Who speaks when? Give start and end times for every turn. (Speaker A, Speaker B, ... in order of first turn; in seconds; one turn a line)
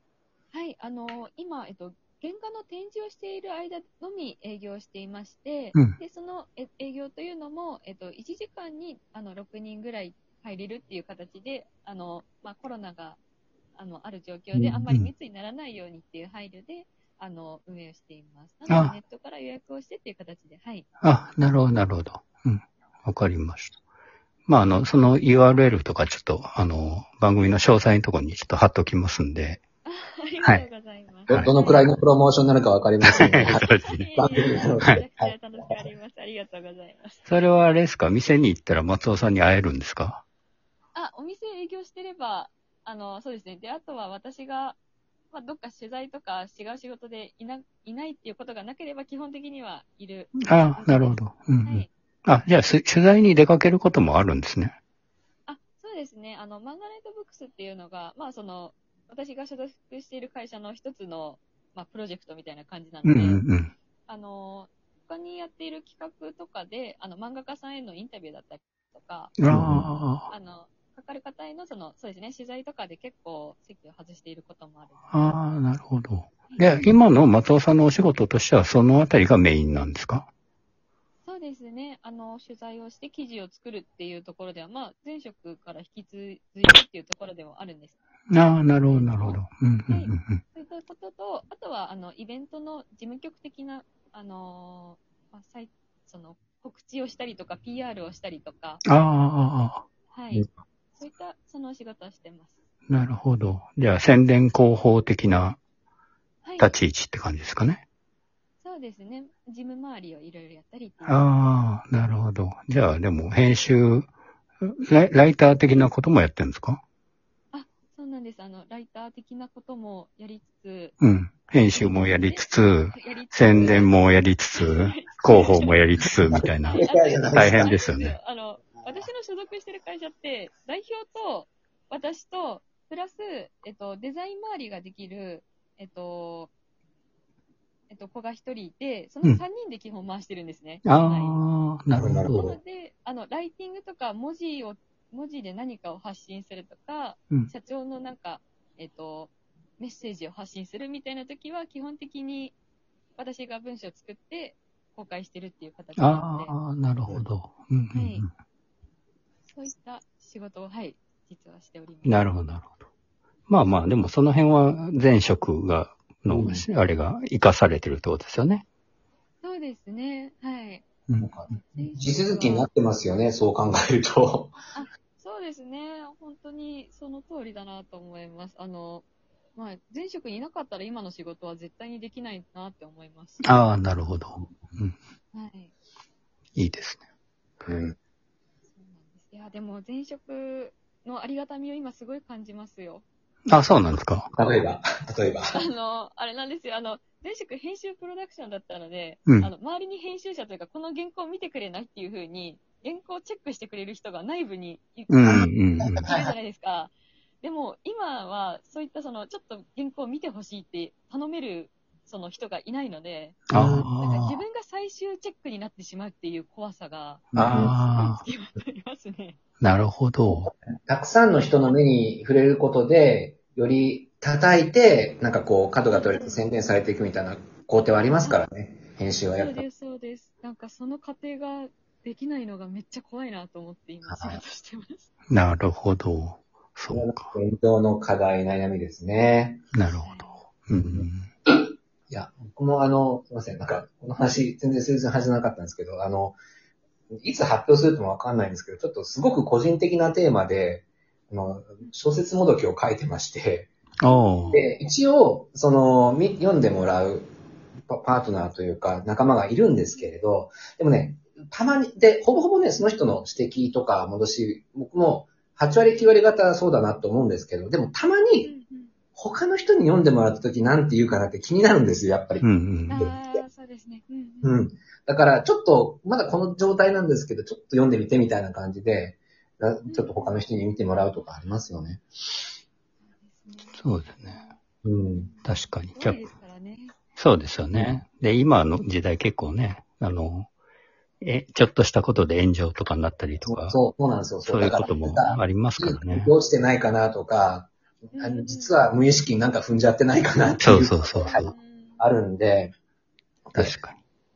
Speaker A: 0.5-13.2
Speaker A: 13.8-20.9
Speaker B: 14.5-15.1
Speaker B: 18.7-18.9
Speaker B: 21.0-23.8
Speaker B: 24.5-29.6
Speaker A: 29.9-32.0
Speaker C: 31.3-35.9
Speaker B: 33.0-34.1
Speaker A: 33.4-37.5
Speaker B: 37.3-40.2
Speaker A: 40.9-44.8
Speaker A: 45.3-51.9
Speaker B: 50.4-54.7
Speaker A: 55.5-63.4
Speaker B: 63.0-63.7
Speaker A: 64.1-69.5
Speaker B: 69.4-70.3
Speaker C: 69.5-69.8
Speaker A: 70.3-75.1
Speaker B: 75.1-80.3
Speaker A: 76.5-76.8
Speaker A: 81.2-98.8
Speaker B: 88.3-90.4
Speaker B: 98.9-99.8
Speaker A: 100.1-102.6
Speaker B: 102.9-105.6
Speaker A: 106.4-106.8
Speaker B: 106.6-107.8
Speaker A: 108.6-111.2
Speaker B: 111.0-114.1
Speaker B: 114.6-116.8
Speaker A: 117.5-121.0
Speaker B: 121.0-126.8
Speaker A: 121.7-123.9
Speaker A: 124.5-125.8
Speaker C: 126.3-127.8
Speaker A: 126.7-136.5
Speaker B: 127.3-128.2
Speaker A: 137.9-141.4
Speaker B: 140.8-142.4
Speaker C: 141.9-142.5
Speaker A: 142.3-152.6
Speaker A: 153.2-156.6
Speaker B: 156.0-158.2
Speaker A: 157.9-158.3
Speaker A: 159.5-162.3
Speaker B: 162.1-162.7
Speaker B: 163.5-168.6
Speaker C: 166.3-166.7
Speaker A: 169.4-170.9
Speaker B: 171.1-171.3
Speaker C: 171.2-174.5
Speaker A: 171.5-172.7
Speaker A: 174.7-183.5
Speaker B: 183.4-185.0
Speaker A: 185.3-185.7
Speaker B: 186.6-187.0
Speaker C: 187.7-188.0
Speaker A: 188.7-193.1
Speaker B: 193.5-194.3
Speaker C: 194.3-195.6
Speaker A: 195.5-219.4
Speaker B: 205.1-206.0
Speaker C: 205.9-206.3
Speaker B: 213.5-214.4
Speaker C: 213.5-213.9
Speaker C: 217.3-217.8
Speaker B: 217.3-218.2
Speaker B: 219.6-220.5
Speaker C: 220.5-229.6
Speaker A: 225.9-226.5
Speaker A: 227.8-228.4
Speaker A: 229.3-235.1
Speaker C: 234.1-234.4
Speaker B: 235.3-237.3
Speaker C: 236.9-239.7
Speaker B: 239.7-241.3
Speaker A: 239.9-240.4
Speaker C: 240.8-246.4
Speaker C: 247.2-253.7
Speaker B: 254.0-254.6
Speaker A: 254.1-254.8
Speaker C: 254.5-257.3
Speaker C: 257.9-268.5
Speaker A: 268.4-269.0
Speaker C: 269.1-273.4
Speaker B: 272.4-273.1
Speaker A: 272.9-274.6
Speaker C: 274.4-282.0
Speaker A: 279.9-280.4
Speaker A: 283.1-284.6
Speaker B: 283.7-284.4
Speaker C: 284.8-285.3
Speaker A: 285.1-287.0
Speaker B: 285.4-286.3
Speaker B: 287.2-290.5
Speaker B: 291.2-293.8
Speaker C: 293.4-302.7
Speaker B: 294.4-296.3
Speaker A: 298.1-298.9
Speaker B: 300.6-301.4
Speaker A: 301.2-302.2
Speaker C: 303.5-303.8
Speaker B: 303.6-304.0